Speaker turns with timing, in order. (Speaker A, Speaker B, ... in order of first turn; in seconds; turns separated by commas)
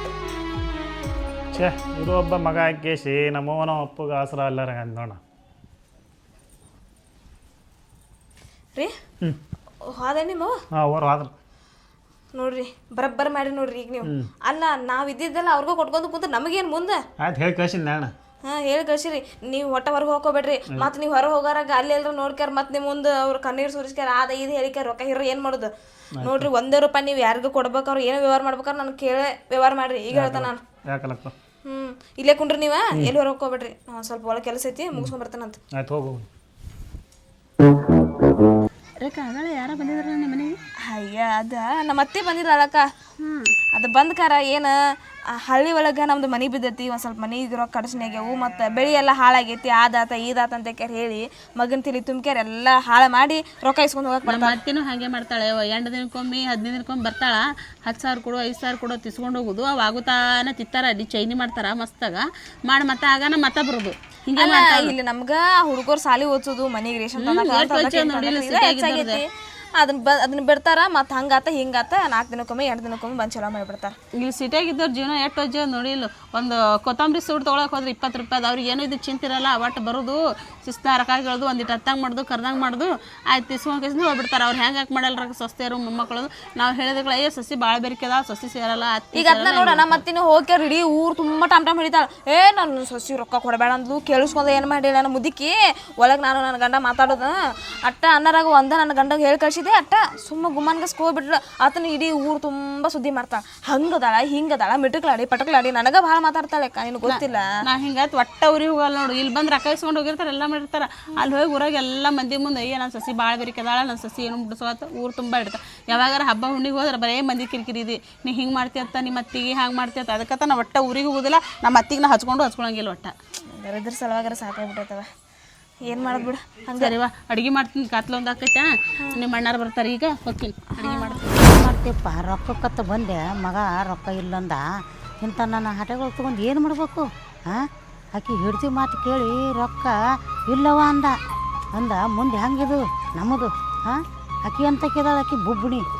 Speaker A: 1.5-5.2, Speaker B: 9.8-10.5, Speaker A: 10.7-11.3, Speaker B: 12.3-17.0, Speaker A: 17.2-18.1, Speaker B: 18.4-30.6, Speaker A: 26.2-26.5, Speaker A: 30.1-31.3, Speaker B: 31.6-35.6, Speaker A: 35.7-36.2, Speaker C: 39.0-40.5, Speaker B: 40.8-42.9, Speaker C: 43.2-43.5, Speaker B: 43.7-44.8, Speaker B: 45.3-54.6, Speaker C: 54.2-64.9, Speaker B: 64.3-74.0, Speaker C: 67.2-69.2, Speaker C: 74.2-90.0, Speaker B: 89.1-107.5, Speaker C: 107.1-123.1, Speaker B: 123.5-125.1, Speaker B: 125.8-126.9, Speaker C: 126.8-131.2, Speaker B: 130.8-131.2, Speaker D: 131.3-134.6, Speaker D: 135.2-141.2, Speaker D: 141.7-145.8